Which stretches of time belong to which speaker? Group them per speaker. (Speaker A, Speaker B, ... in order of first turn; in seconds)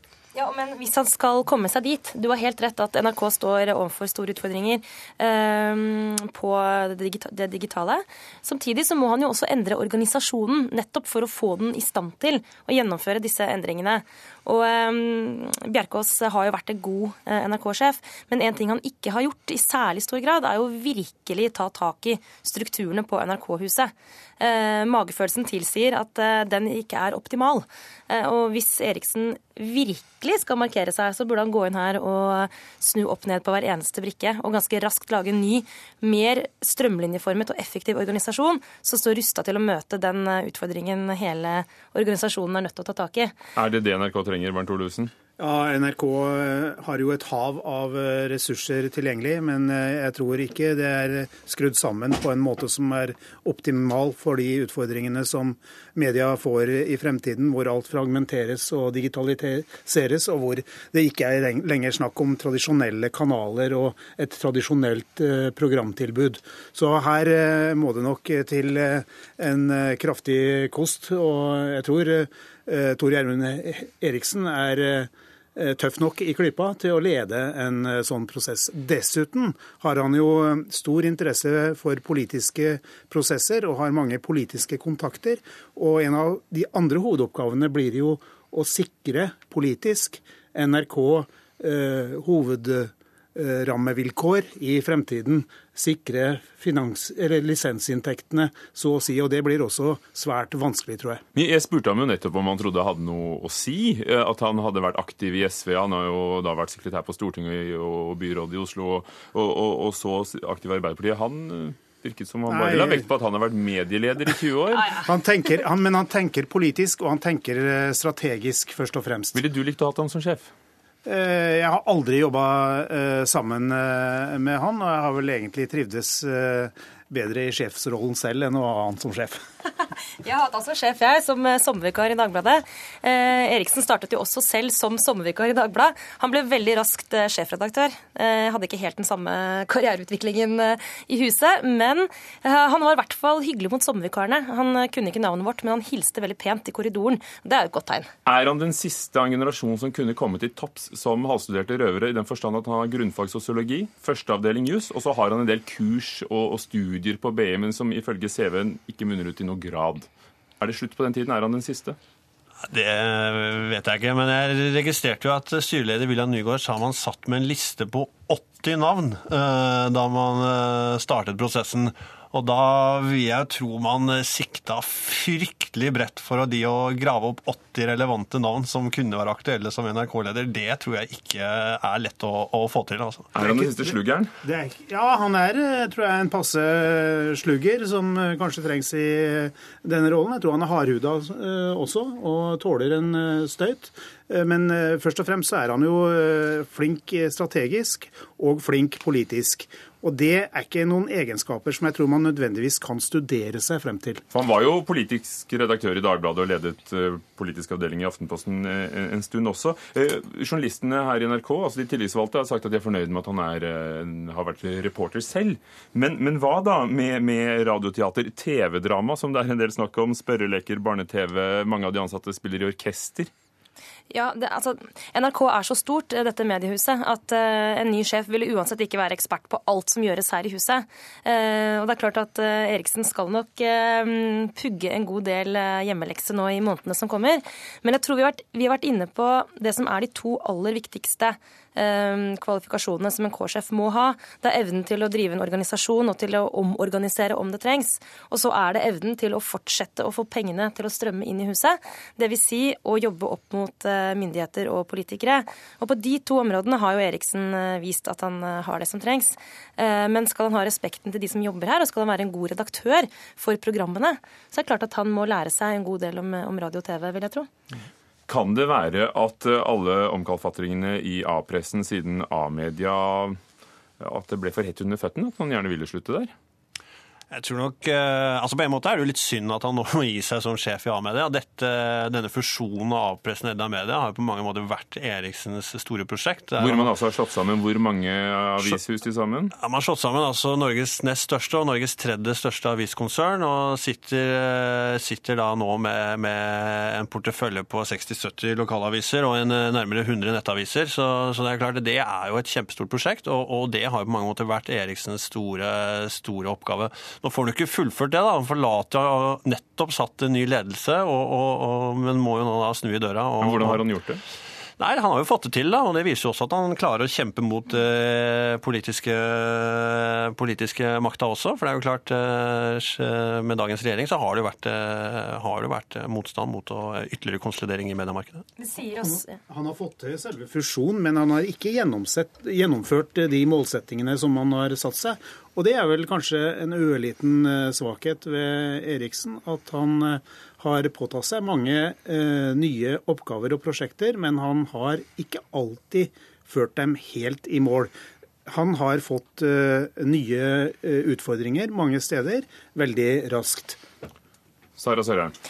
Speaker A: 0.3-43.3, 129.8-148.1, 224.1-267.5, 328.6-329.4
Speaker B: 43.5-45.1, 101.3-115.0, 119.3-120.5, 148.2-160.1, 160.6-162.0, 183.3-184.3, 204.3-223.3, 268.3-273.4, 274.0-276.3, 286.6-289.5, 313.4-314.2, 354.8-355.3
Speaker C: 45.4-101.2, 112.5-113.1, 114.9-119.4, 121.0-129.4, 183.4-183.8, 184.4-204.2, 329.0-347.9, 348.5-353.8
Speaker D: 162.7-183.3, 277.3-286.9, 289.6-313.8, 314.8-328.4